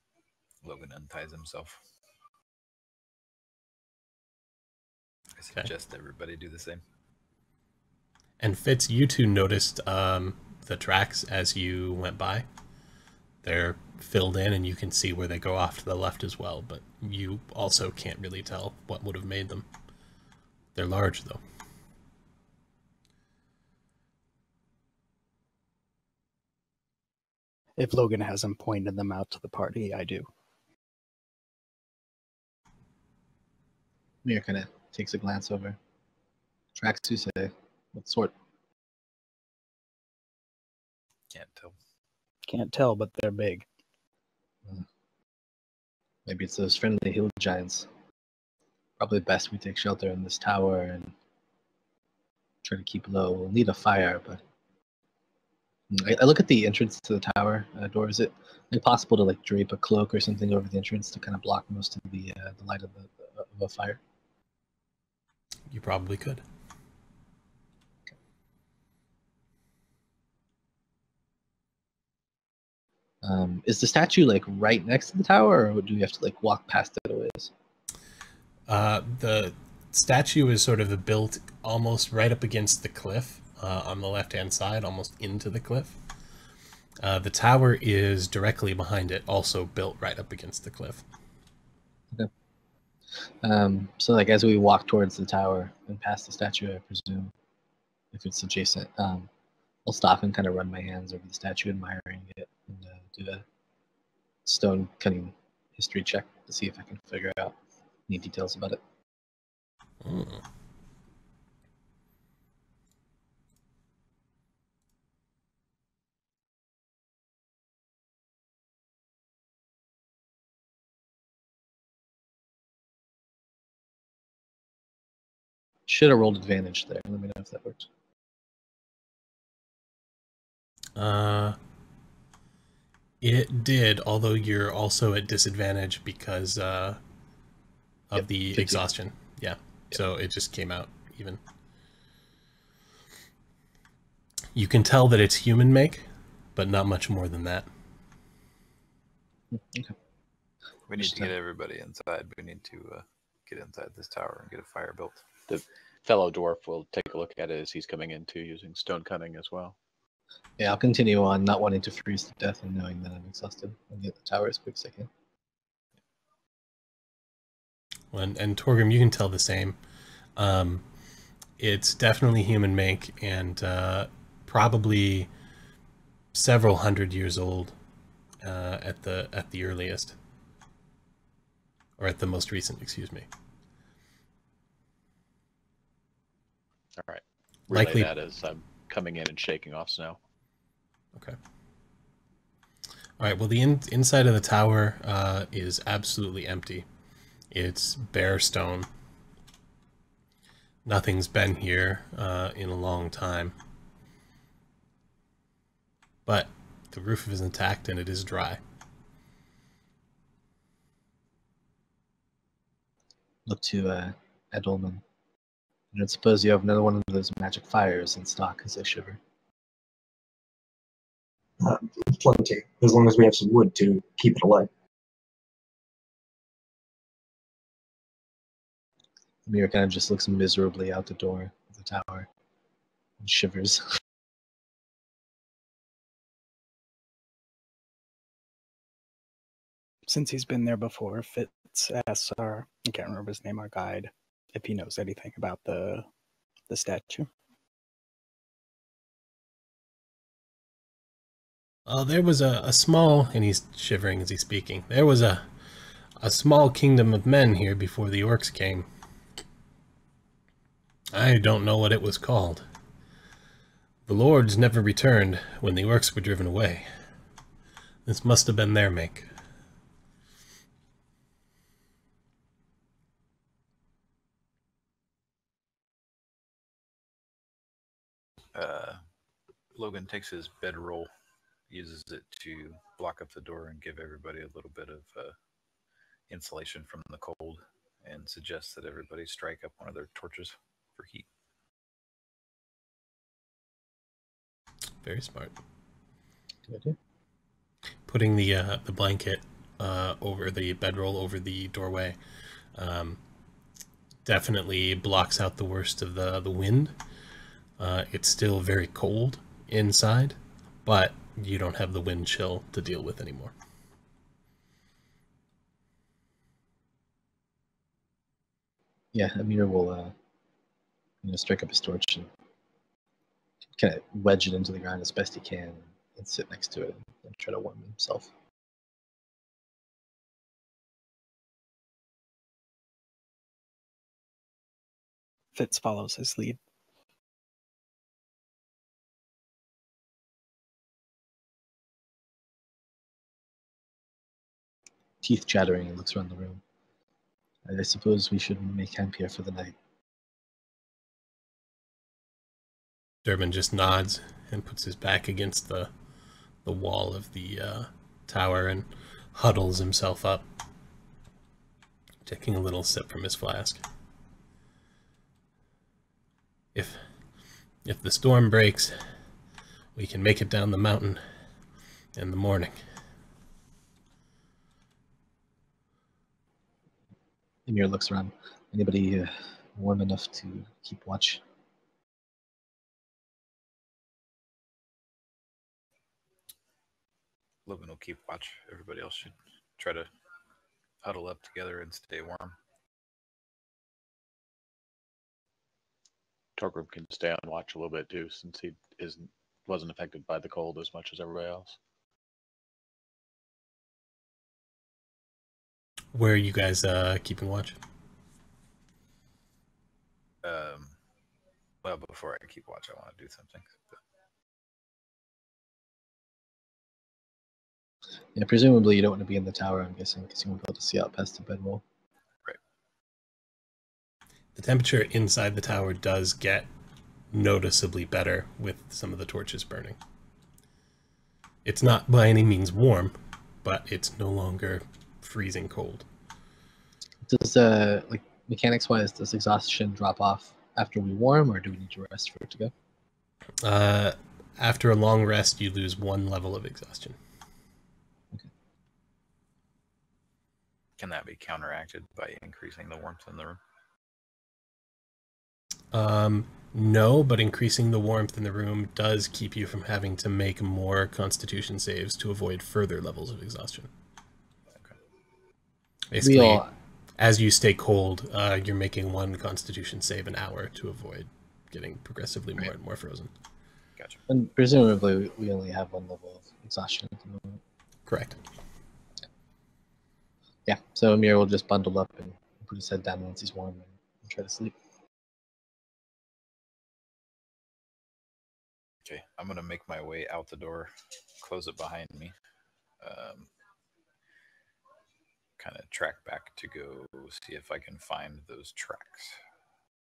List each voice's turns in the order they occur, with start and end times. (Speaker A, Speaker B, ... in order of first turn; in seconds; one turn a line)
Speaker A: 0.6-1.8
Speaker A: 5.4-6.8
Speaker B: 8.4-12.5
Speaker B: 13.4-19.7
Speaker B: 20.8-21.4
Speaker C: 27.8-30.3
Speaker D: 34.2-35.8
Speaker D: 36.8-38.3
Speaker A: 41.3-41.8
Speaker C: 42.5-43.7
Speaker D: 46.3-47.9
Speaker D: 49.0-51.1
Speaker D: 52.6-54.4
Speaker D: 55.9-64.0
Speaker B: 65.7-66.4
Speaker D: 73.2-77.5
Speaker B: 78.7-86.0
Speaker B: 87.0-91.0
Speaker D: 93.4-97.3
Speaker D: 98.1-99.3
Speaker D: 99.9-103.5
Speaker D: 104.5-107.6
Speaker D: 108.1-108.8
Speaker B: 110.0-110.4
Speaker D: 125.9-127.9
Speaker B: 131.0-131.6
Speaker B: 133.2-137.0
Speaker B: 138.1-141.4
Speaker D: 138.5-138.8
Speaker B: 144.6-147.7
Speaker D: 149.5-149.9
Speaker A: 150.9-155.2
Speaker D: 151.0-151.3
Speaker E: 155.5-159.8
Speaker D: 160.6-165.1
Speaker B: 168.1-169.8
Speaker B: 170.4-170.8
Speaker B: 171.6-175.3
Speaker B: 176.3-177.8
Speaker B: 178.4-180.2
Speaker B: 182.0-183.3
Speaker E: 187.0-190.2
Speaker B: 187.7-188.1
Speaker B: 193.2-196.9
Speaker B: 197.5-198.9
Speaker B: 200.8-203.6
Speaker B: 206.3-208.6
Speaker D: 213.5-215.0
Speaker D: 215.9-219.2
Speaker F: 221.6-224.7
Speaker D: 229.5-232.3
Speaker D: 233.2-234.0
Speaker C: 240.1-246.1
Speaker C: 246.7-247.3
Speaker B: 251.9-255.5
Speaker B: 256.2-258.9
Speaker B: 261.1-262.7
Speaker B: 264.1-266.9
Speaker B: 268.1-269.3
Speaker A: 278.6-279.0
Speaker A: 279.8-281.1
Speaker A: 281.7-285.4
Speaker A: 286.3-291.3
Speaker B: 295.0-295.6
Speaker D: 296.7-297.0
Speaker B: 298.1-302.2
Speaker B: 302.8-303.2
Speaker B: 304.2-306.9
Speaker B: 307.8-313.5
Speaker D: 319.1-320.1
Speaker D: 321.2-322.3
Speaker D: 323.8-328.3
Speaker C: 335.6-336.6
Speaker D: 345.2-346.6
Speaker D: 347.7-349.8
Speaker B: 353.2-355.9
Speaker B: 356.6-360.4
Speaker B: 362.2-363.8
Speaker B: 366.8-367.0
Speaker B: 367.9-369.0
Speaker B: 369.9-371.2
Speaker B: 372.2-372.8
Speaker D: 377.7-381.4
Speaker A: 387.7-390.1
Speaker A: 391.0-392.6
Speaker E: 396.6-401.8
Speaker B: 406.1-407.8
Speaker A: 410.4-411.0
Speaker A: 411.8-414.0
Speaker D: 418.4-421.8
Speaker B: 424.6-426.7
Speaker B: 427.3-430.0
Speaker B: 431.6-436.1
Speaker D: 437.2-442.7
Speaker B: 443.6-447.2
Speaker A: 451.0-453.6
Speaker B: 455.9-463.9
Speaker B: 466.1-466.6
Speaker D: 466.2-466.7
Speaker B: 467.2-473.3
Speaker D: 474.3-477.6
Speaker B: 478.1-478.4
Speaker D: 480.7-484.8
Speaker A: 489.1-492.3
Speaker A: 493.0-493.5
Speaker A: 495.6-499.4